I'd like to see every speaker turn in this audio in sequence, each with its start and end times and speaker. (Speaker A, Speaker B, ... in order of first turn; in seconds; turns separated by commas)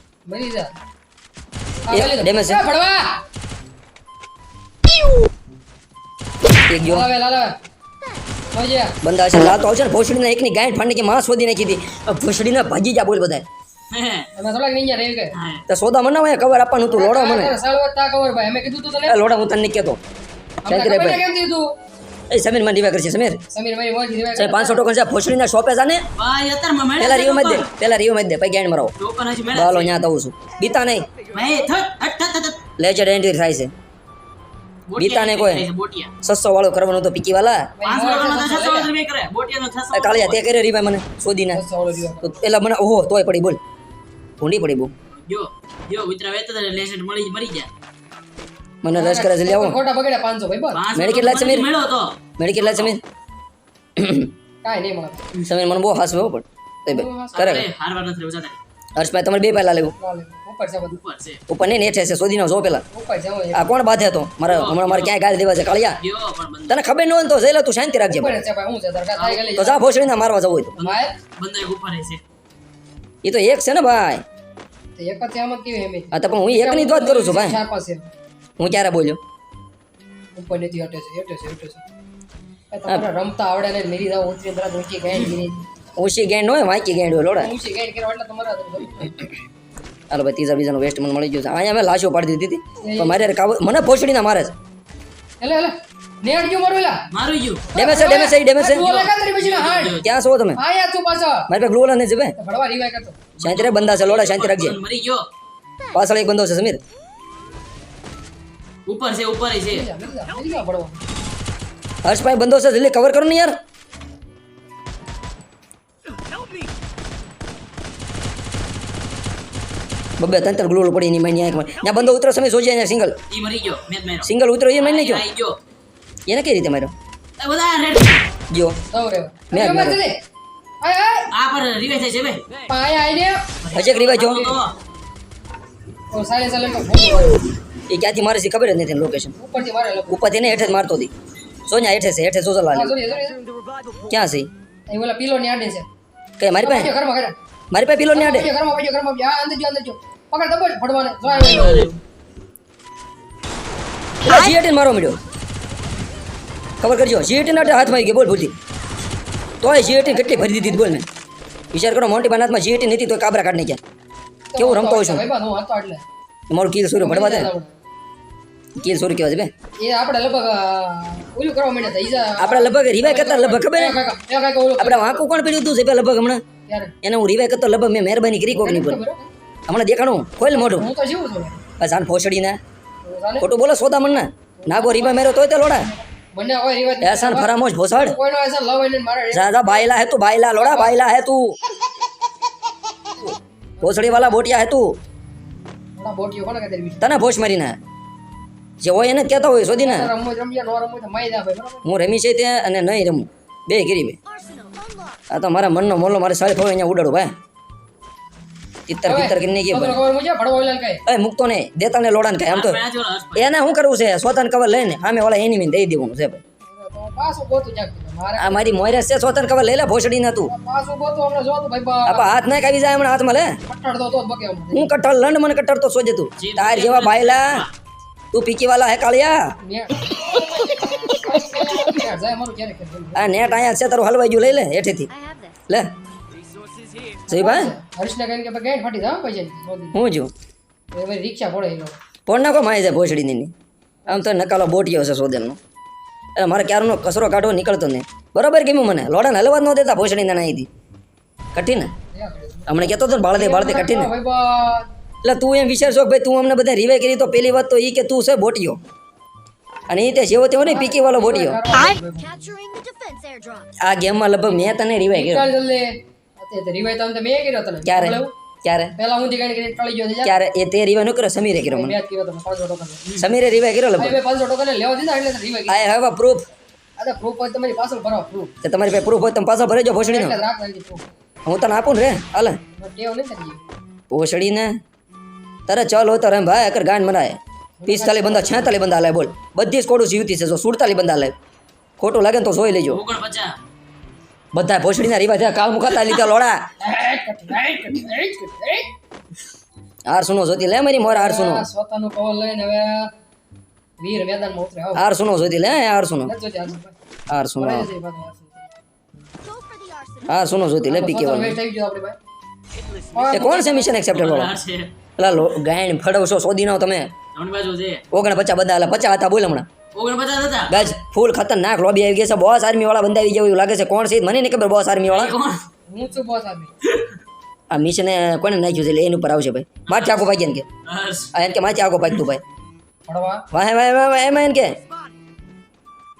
Speaker A: 0.3-0.7, Speaker A: 1.9-3.1, Speaker B: 1.9-2.6, Speaker B: 6.7-7.1, Speaker A: 6.8-7.5, Speaker A: 8.5-8.9, Speaker B: 9.0-13.4, Speaker C: 13.9-14.3, Speaker A: 14.4-15.3, Speaker C: 15.3-15.6, Speaker B: 15.7-17.6, Speaker A: 16.9-19.2, Speaker B: 19.1-20.0, Speaker A: 20.6-21.7, Speaker B: 20.7-21.2, Speaker B: 22.3-23.4, Speaker A: 23.5-24.9, Speaker B: 24.4-26.1, Speaker C: 26.2-27.7, Speaker B: 27.0-28.9, Speaker C: 29.0-30.0, Speaker B: 29.5-31.1, Speaker C: 31.3-32.6, Speaker B: 32.8-33.7, Speaker C: 34.9-36.1, Speaker B: 35.0-35.7, Speaker B: 36.2-37.7, Speaker A: 37.8-38.9, Speaker C: 37.8-40.4, Speaker B: 39.9-41.6, Speaker A: 41.5-42.4, Speaker B: 42.2-43.6, Speaker B: 44.4-44.9, Speaker C: 45.2-47.7, Speaker B: 48.8-49.8, Speaker A: 48.9-50.8, Speaker C: 50.7-53.0, Speaker B: 51.0-51.7, Speaker B: 52.4-53.0, Speaker B: 54.0-54.3, Speaker A: 54.6-55.2, Speaker B: 55.5-57.7, Speaker A: 56.9-57.5, Speaker C: 57.3-58.6, Speaker B: 59.0-59.9, Speaker A: 60.0-61.0, Speaker C: 60.9-61.4, Speaker B: 61.5-62.8, Speaker A: 62.9-63.7, Speaker B: 63.5-66.0, Speaker C: 64.5-65.2, Speaker C: 66.0-66.8, Speaker B: 66.7-68.4, Speaker A: 68.1-70.2, Speaker C: 69.2-69.5, Speaker B: 69.5-70.8, Speaker A: 70.8-71.2, Speaker C: 70.8-72.2, Speaker B: 73.2-74.2, Speaker A: 75.0-78.1, Speaker B: 76.1-77.6, Speaker B: 78.6-79.2, Speaker A: 80.3-81.8, Speaker A: 82.7-85.6, Speaker B: 86.0-87.5, Speaker A: 87.4-89.3, Speaker B: 90.1-94.5, Speaker A: 92.8-93.3, Speaker A: 95.4-97.0, Speaker C: 97.1-97.7, Speaker B: 97.8-98.8, Speaker A: 97.8-100.0, Speaker C: 98.8-100.1, Speaker B: 100.0-100.6, Speaker A: 100.6-101.5, Speaker B: 101.5-102.3, Speaker A: 102.4-103.2, Speaker C: 103.4-105.2, Speaker B: 103.4-104.8, Speaker B: 105.9-106.8, Speaker C: 108.9-109.8, Speaker A: 109.7-111.0, Speaker B: 112.0-113.5, Speaker B: 120.2-123.2, Speaker C: 123.3-125.6, Speaker B: 124.2-125.2, Speaker B: 126.3-126.9, Speaker C: 127.4-128.3, Speaker B: 128.5-128.8, Speaker A: 128.9-130.2, Speaker B: 129.5-130.0, Speaker A: 130.8-131.3, Speaker C: 131.3-132.5, Speaker A: 132.7-133.4, Speaker C: 133.6-134.8, Speaker B: 133.7-134.6, Speaker A: 136.1-137.4, Speaker B: 137.9-139.3, Speaker A: 139.3-140.3, Speaker B: 140.1-141.1, Speaker B: 141.7-142.9, Speaker A: 142.7-143.4, Speaker B: 144.1-144.5, Speaker A: 144.9-145.9, Speaker B: 146.4-146.9, Speaker A: 146.6-147.3, Speaker B: 147.7-148.5, Speaker A: 148.1-151.9, Speaker C: 151.3-152.0, Speaker B: 154.2-155.2, Speaker B: 156.8-158.5, Speaker A: 157.5-158.2, Speaker B: 159.6-161.1, Speaker A: 159.7-161.0, Speaker B: 161.7-163.8, Speaker A: 164.5-166.0, Speaker B: 164.6-165.3, Speaker B: 166.5-167.5, Speaker A: 166.9-167.7, Speaker B: 168.8-169.5, Speaker A: 169.8-175.4, Speaker B: 172.4-174.0, Speaker B: 174.8-176.4, Speaker A: 176.7-176.9, Speaker B: 177.0-179.0, Speaker A: 178.6-179.3, Speaker B: 179.7-180.9, Speaker A: 180.5-181.6, Speaker B: 181.8-182.6, Speaker A: 183.0-183.5, Speaker B: 183.4-185.9, Speaker A: 184.6-189.9, Speaker B: 187.0-188.2, Speaker B: 189.3-191.6, Speaker A: 190.6-190.9, Speaker A: 193.8-194.2, Speaker B: 193.8-195.0, Speaker A: 196.0-197.1, Speaker B: 197.0-197.8, Speaker B: 198.8-200.1, Speaker A: 199.8-201.9, Speaker B: 201.8-204.2, Speaker D: 204.3-205.2, Speaker B: 205.3-207.3, Speaker B: 208.9-210.0, Speaker A: 209.1-211.0, Speaker B: 211.1-212.8, Speaker C: 212.5-213.5, Speaker B: 213.4-216.4, Speaker A: 216.7-218.9, Speaker B: 218.4-220.5, Speaker A: 220.5-222.4, Speaker B: 222.1-223.6, Speaker A: 223.6-224.9, Speaker B: 224.7-227.7, Speaker C: 226.4-227.7, Speaker B: 228.3-229.5, Speaker A: 229.6-233.6, Speaker B: 233.2-235.1, Speaker D: 235.1-235.6, Speaker A: 237.3-240.0, Speaker B: 237.3-237.7, Speaker B: 239.9-240.3, Speaker A: 240.9-242.0, Speaker B: 242.3-243.5, Speaker A: 244.1-244.5, Speaker B: 244.1-245.6, Speaker B: 246.4-250.7, Speaker B: 251.6-251.9, Speaker A: 252.1-254.9, Speaker B: 252.7-254.1, Speaker B: 255.2-258.8, Speaker B: 259.9-261.6, Speaker A: 260.6-262.3, Speaker D: 262.2-263.7, Speaker B: 263.8-265.5, Speaker A: 265.1-268.3, Speaker B: 267.8-268.9, Speaker A: 269.0-270.3, Speaker B: 270.2-272.0, Speaker A: 271.7-273.0, Speaker B: 273.2-274.2, Speaker A: 274.0-275.9, Speaker B: 275.7-276.4, Speaker A: 277.0-278.5, Speaker B: 278.6-280.4, Speaker A: 280.0-281.1, Speaker B: 281.5-282.6, Speaker A: 282.8-283.6, Speaker B: 284.1-284.8, Speaker B: 285.7-291.3, Speaker A: 287.8-288.8, Speaker B: 292.0-293.0, Speaker C: 292.9-293.6, Speaker B: 294.5-296.6, Speaker A: 296.8-298.9, Speaker B: 300.1-301.7, Speaker A: 301.0-303.1, Speaker A: 304.0-305.1, Speaker B: 304.9-306.3, Speaker A: 306.2-306.9, Speaker B: 307.3-307.9, Speaker A: 307.6-308.7, Speaker D: 309.4-310.4, Speaker B: 310.3-311.6, Speaker A: 310.9-312.2, Speaker A: 313.1-314.0, Speaker B: 313.3-314.5, Speaker C: 314.1-314.9, Speaker B: 315.2-317.1, Speaker C: 317.4-318.0, Speaker B: 318.1-319.7, Speaker C: 319.9-320.8, Speaker B: 320.7-325.4, Speaker C: 325.0-325.6, Speaker A: 325.9-326.7, Speaker B: 327.7-330.7, Speaker C: 329.9-330.3, Speaker C: 330.9-331.3, Speaker B: 331.3-332.4, Speaker A: 333.1-333.5, Speaker B: 333.5-334.8